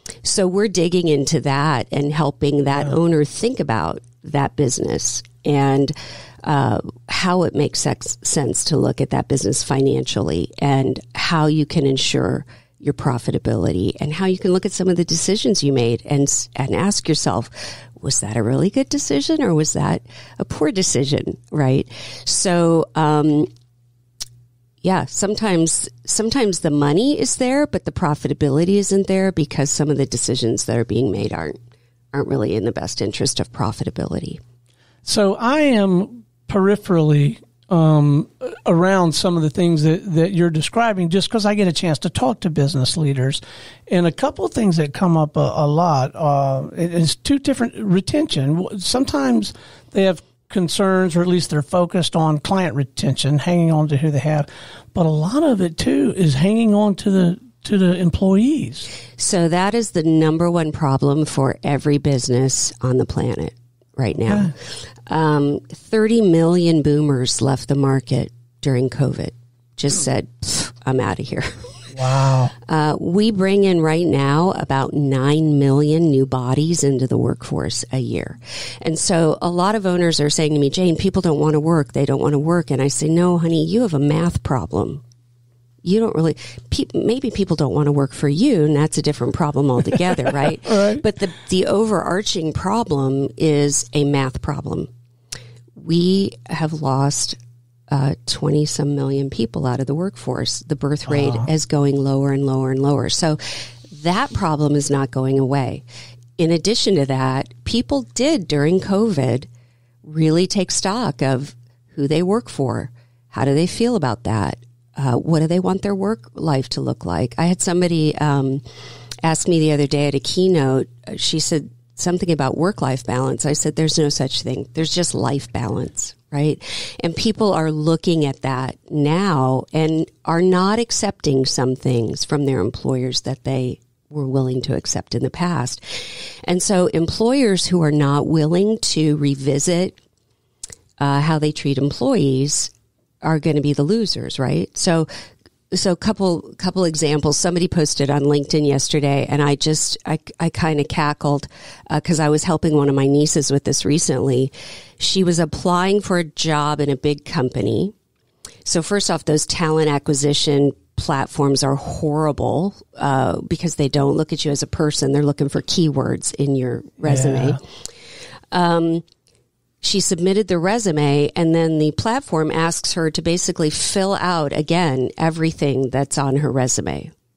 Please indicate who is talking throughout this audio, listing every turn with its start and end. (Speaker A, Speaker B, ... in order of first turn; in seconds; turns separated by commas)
Speaker A: 0.2-23.5, Speaker A: 24.8-31.6, Speaker A: 32.1-34.4, Speaker B: 35.0-58.9, Speaker A: 59.2-71.9, Speaker B: 64.2-64.5, Speaker B: 71.9-72.5, Speaker A: 72.6-85.0, Speaker A: 85.8-94.9, Speaker B: 90.7-91.0, Speaker A: 95.8-97.4, Speaker A: 97.9-105.8, Speaker B: 101.0-101.5, Speaker A: 106.4-109.5, Speaker A: 110.0-118.6, Speaker A: 119.2-140.0, Speaker A: 141.0-142.7, Speaker A: 143.2-145.1, Speaker A: 145.7-157.9, Speaker A: 158.7-167.6, Speaker B: 167.0-167.6, Speaker A: 168.5-169.0, Speaker A: 169.8-177.1